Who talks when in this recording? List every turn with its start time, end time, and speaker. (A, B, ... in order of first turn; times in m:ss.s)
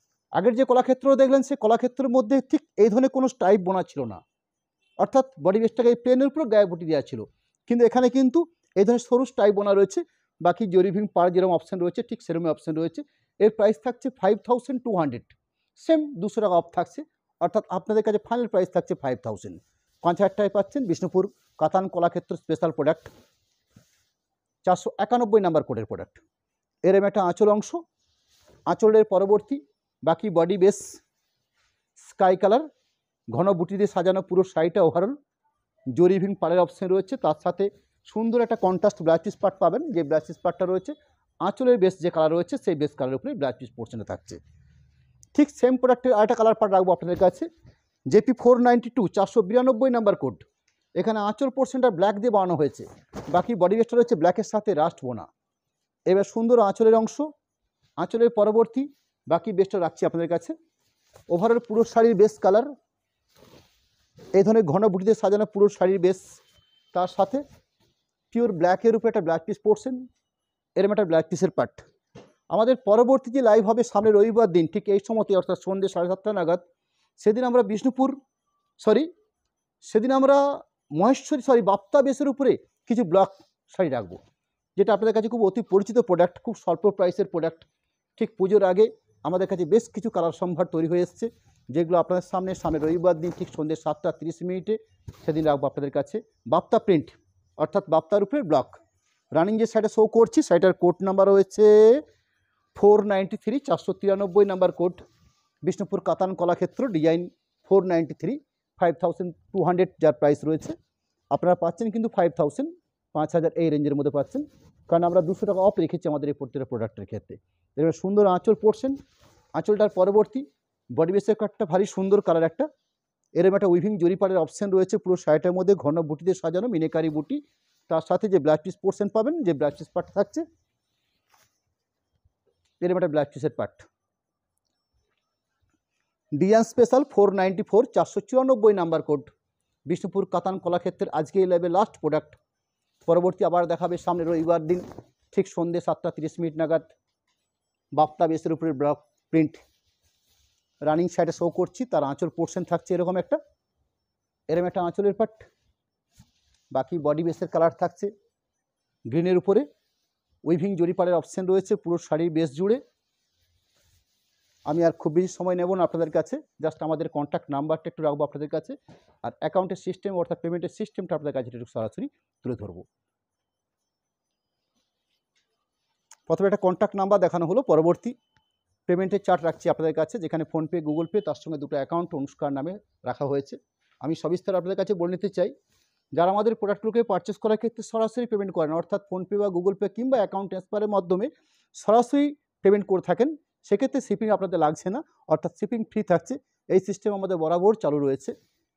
0:00.4-0:04.2 A
0:05.0-0:23.1 A
0:24.6-0:26.2 A
0:26.8-0:27.8 A
0:28.7-0:31.0 A
0:32.0-0:32.6 A
0:33.3-0:35.2 A
0:35.9-0:44.4 A
0:45.3-0:47.5 A
0:48.1-0:50.4 A
0:51.0-0:55.3 A
0:56.1-0:57.3 A
0:58.0-1:00.5 A
1:01.3-1:02.7 A
1:04.3-1:06.2 A
1:06.9-1:07.4 A
1:08.3-1:10.0 A
1:10.8-1:11.8 A
1:12.5-1:16.6 A
1:17.2-1:18.2 A
1:18.8-1:19.1 A
1:19.8-1:24.2 A
1:24.8-1:27.6 A
1:28.2-1:38.8 A
1:39.3-1:42.0 A
1:42.7-1:45.0 A
1:45.6-1:50.7 A
1:51.3-1:59.0 A
1:59.6-2:02.7 A
2:03.4-2:10.4 A
2:12.8-2:13.9 A
2:16.3-2:19.3 A
2:19.9-2:22.4 A
2:23.1-2:26.9 A
2:27.9-2:29.6 A
2:30.8-2:33.4 A
2:34.5-2:35.5 A
2:36.7-2:38.1 A
2:39.1-2:39.7 A
2:40.4-2:42.8 A
2:44.7-2:52.8 A
2:56.3-2:58.1 A
2:58.9-3:05.5 A
3:06.2-3:18.3 A